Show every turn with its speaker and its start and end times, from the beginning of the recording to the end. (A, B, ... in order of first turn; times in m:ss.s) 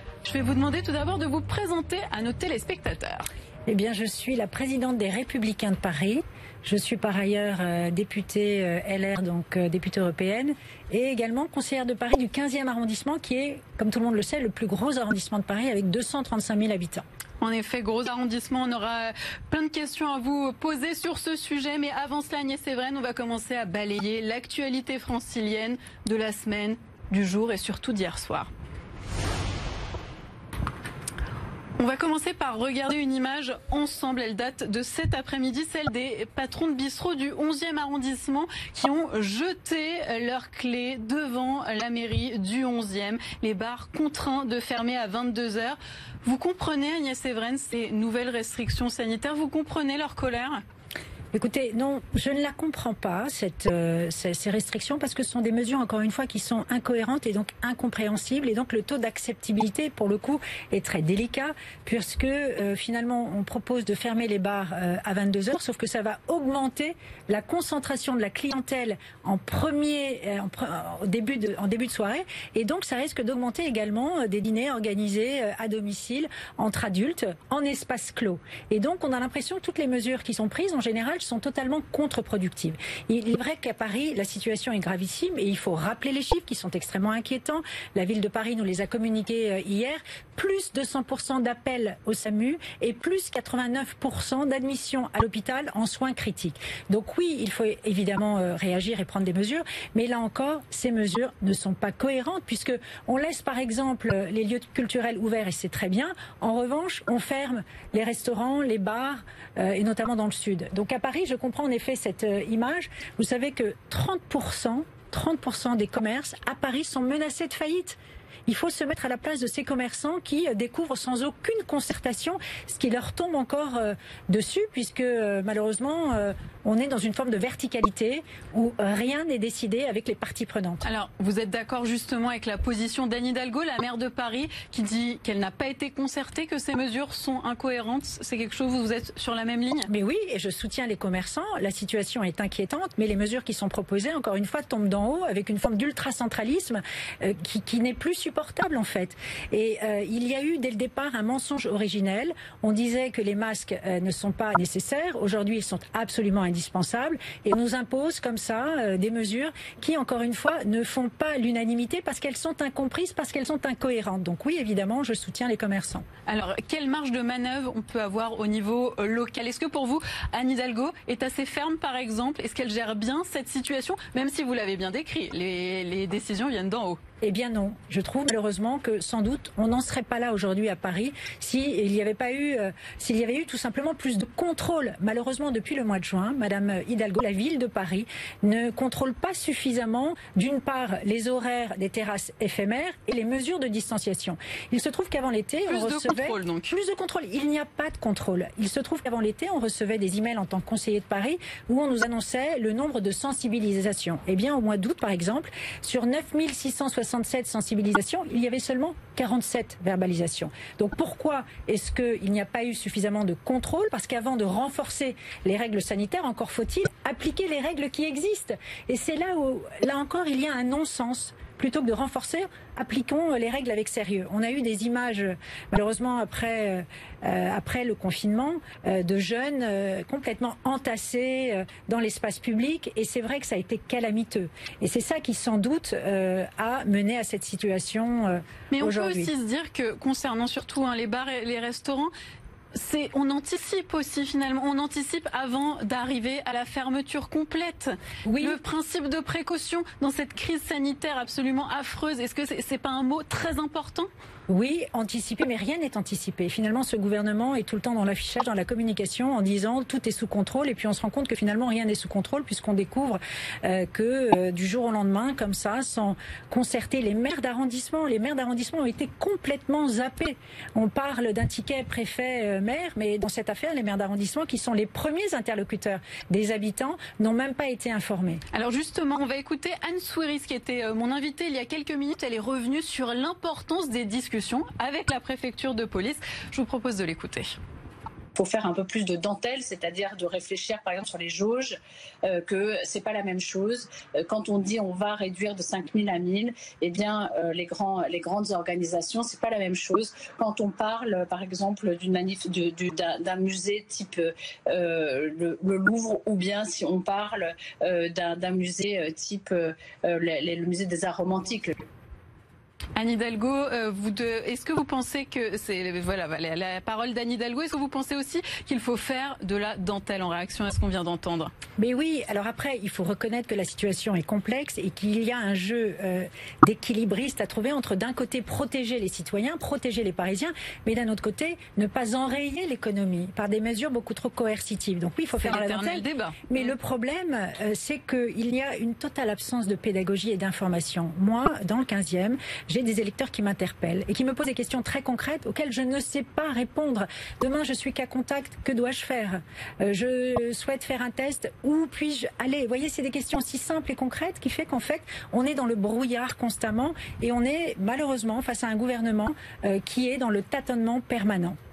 0:00.2-0:03.3 A
0:03.7-0:17.0 B
0:17.4-0:28.5 A
0:31.8-0:50.6 A
0:51.3-2:10.8 B
2:10.8-2:19.9 A
2:19.9-2:46.0 B
2:46.3-2:57.0 A
2:57.2-3:59.3 B
3:15.7-3:16.7 A
3:58.7-4:02.1 A
4:02.7-4:14.1 A
4:08.2-4:08.6 B
4:14.5-4:38.4 B
4:38.5-4:47.5 A
4:48.3-5:11.8 C
5:13.0-5:21.5 A
5:21.8-6:01.6 B
5:35.4-5:36.7 A